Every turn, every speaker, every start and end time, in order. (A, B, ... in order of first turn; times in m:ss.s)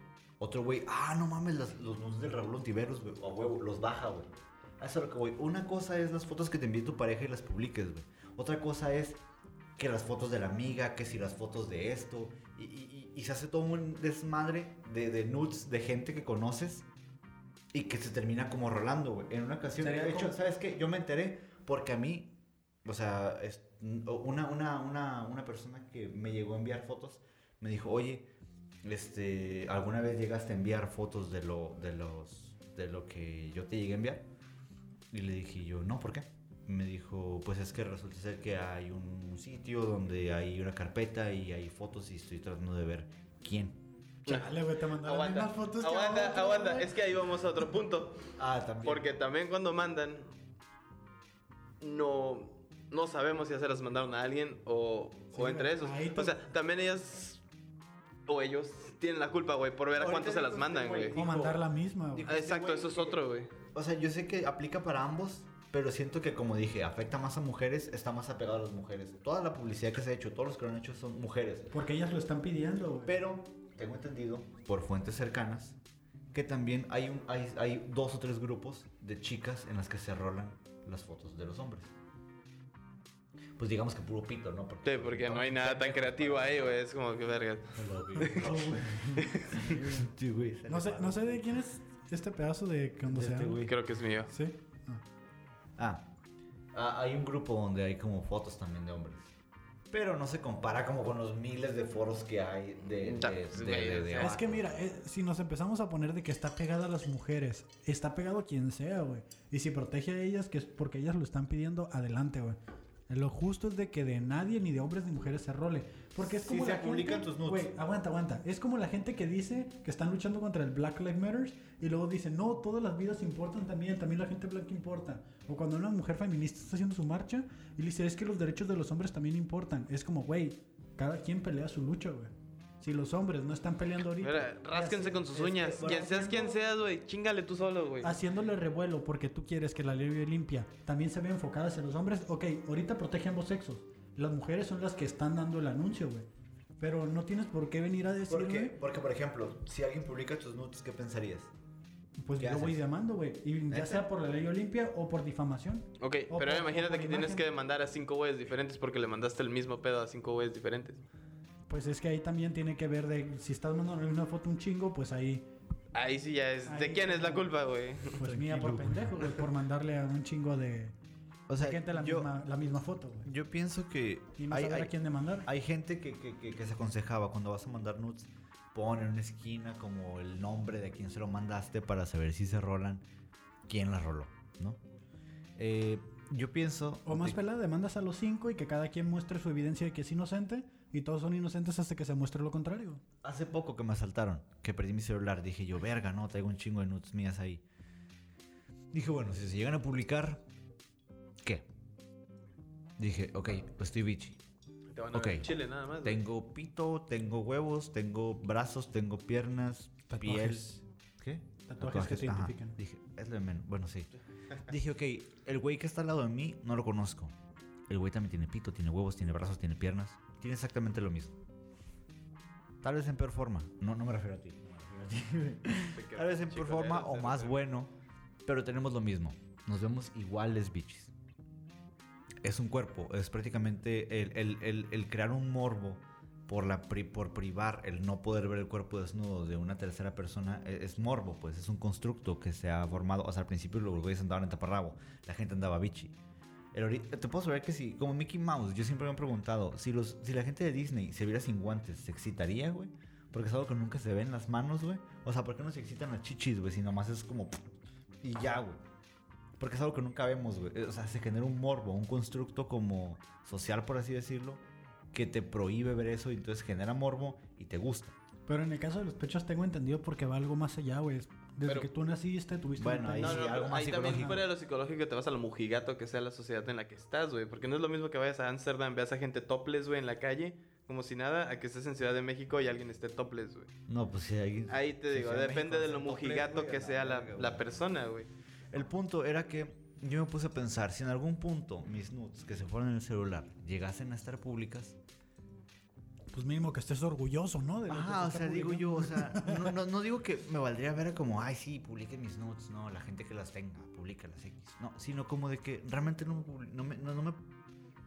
0:00.4-0:09.2 A
0:09.8-0:16.9 A
0:17.7-0:28.3 A
0:19.8-0:20.4 B
0:28.8-0:34.3 A
0:35.1-0:43.8 A
0:44.3-0:47.0 B
0:44.3-0:48.3 C
0:48.4-0:49.1 A
0:48.8-0:50.3 C
0:51.8-0:57.4 C
0:55.3-0:56.4 B
0:58.3-1:01.3 C
1:00.0-1:01.6 A
1:01.1-1:02.3 B
1:02.1-1:11.7 A
1:02.3-1:03.5 C
1:11.7-1:13.2 B
1:13.0-1:15.8 A
1:16.3-1:21.9 A
1:23.6-1:26.7 A
1:24.8-1:28.5 C
1:27.8-1:31.6 A
1:28.2-1:30.1 B
1:29.2-1:29.7 C
1:30.7-1:33.6 B
1:33.1-1:33.8 A
1:33.6-1:34.3 C
1:34.3-1:35.0 B
1:35.8-1:36.1 A
1:36.7-1:39.3 A
1:39.9-1:44.7 A
1:43.0-1:44.4 C
1:44.2-1:52.6 B
1:53.1-2:16.2 B
1:56.2-1:57.7 A
2:14.2-2:18.2 C
2:15.6-2:16.6 A
2:18.0-2:26.3 B
2:26.8-2:28.8 B
2:28.3-2:31.5 A
2:32.2-2:37.4 B
2:32.4-2:32.8 A
2:33.7-2:34.1 A
2:36.0-2:41.0 C
2:41.7-2:45.5 B
2:45.9-2:48.2 C
2:46.6-2:47.5 B
2:48.2-2:51.0 B
2:48.2-2:49.1 A
2:51.5-2:52.3 A
2:51.6-2:53.3 B
2:53.2-3:03.0 A
2:54.4-2:55.5 B
3:03.7-3:04.8 A
3:05.6-3:07.4 A
3:07.1-3:13.0 B
3:13.2-3:17.6 A
3:18.9-3:20.4 A
3:23.0-3:24.4 A
3:24.9-3:26.2 C
3:25.1-3:30.7 A
3:30.1-3:30.8 B
3:31.2-3:34.1 A
3:31.7-3:32.8 B
3:34.7-3:37.3 A
3:37.9-3:41.4 A
3:42.8-3:47.9 A
3:46.0-3:47.6 C
3:48.4-3:51.1 A
3:52.4-4:06.2 A
4:06.7-4:17.6 A
4:18.2-4:18.8 A
4:19.6-4:28.2 A
4:28.5-4:34.4 B
4:32.8-4:34.4 A
4:33.2-4:43.7 C
4:43.9-4:47.6 A
4:44.7-4:48.3 C
4:48.7-4:55.0 A
4:56.3-4:59.8 B
4:57.9-5:07.5 A